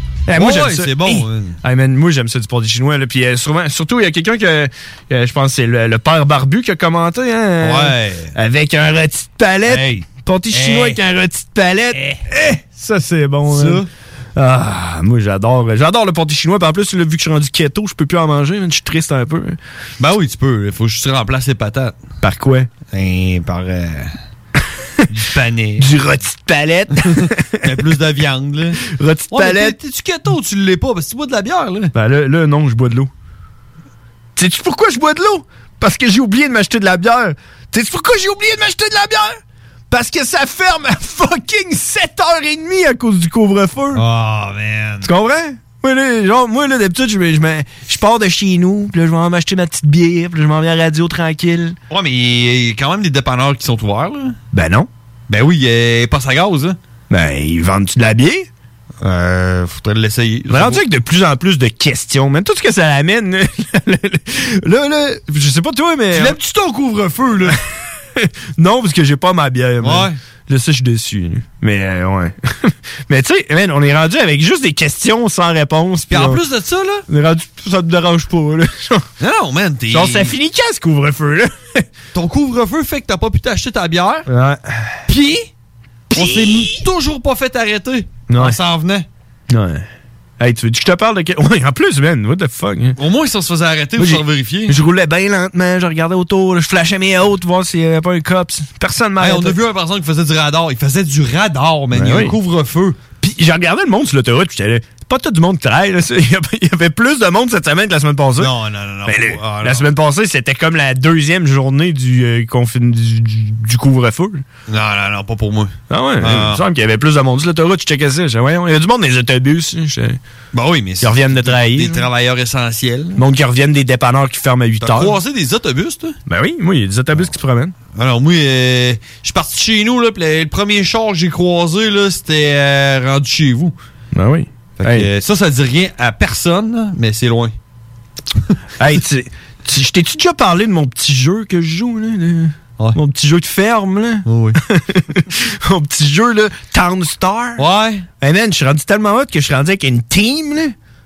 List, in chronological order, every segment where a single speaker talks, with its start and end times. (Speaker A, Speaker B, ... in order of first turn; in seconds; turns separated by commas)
Speaker A: 0.3-13.8, Speaker B: 0.3-1.6, Speaker B: 7.6-8.3, Speaker B: 9.7-11.0, Speaker B: 11.9-12.2, Speaker B: 13.5-13.9, Speaker A: 14.4-19.6, Speaker B: 20.0-22.0, Speaker A: 22.2-22.7, Speaker B: 22.9-24.2, Speaker B: 25.1-25.9, Speaker A: 25.8-27.7, Speaker B: 27.6-31.9, Speaker A: 28.8-29.8, Speaker A: 31.9-33.1, Speaker A: 34.4-39.4, Speaker A: 39.9-44.0, Speaker B: 43.9-45.1, Speaker A: 45.0-51.8, Speaker B: 51.9-54.4, Speaker A: 54.5-54.9, Speaker B: 55.3-56.8, Speaker A: 57.1-58.5, Speaker B: 59.0-60.8, Speaker A: 60.5-66.4, Speaker B: 66.1-67.6, Speaker A: 68.2-76.4, Speaker B: 69.8-70.2, Speaker B: 76.1-77.1, Speaker A: 77.1-79.0, Speaker B: 79.2-80.4, Speaker A: 79.9-81.8, Speaker B: 82.1-84.3, Speaker A: 84.3-85.0, Speaker B: 85.1-85.5, Speaker B: 86.1-89.1, Speaker A: 86.1-86.6, Speaker A: 88.3-88.6, Speaker A: 89.5-89.8, Speaker A: 90.4-93.0, Speaker B: 93.0-94.8, Speaker A: 94.0-99.6, Speaker B: 99.2-103.0, Speaker A: 101.9-102.4, Speaker A: 103.2-108.5, Speaker B: 108.4-109.9, Speaker A: 109.1-114.4, Speaker B: 114.7-116.6, Speaker A: 115.9-120.2, Speaker B: 120.5-123.2, Speaker A: 121.0-122.0, Speaker A: 123.2-125.2, Speaker B: 124.8-126.2, Speaker A: 126.3-127.7, Speaker B: 127.9-133.8, Speaker A: 134.1-135.1, Speaker B: 134.8-137.6, Speaker A: 138.8-147.7, Speaker B: 144.3-144.6, Speaker B: 147.6-148.1, Speaker A: 148.2-150.8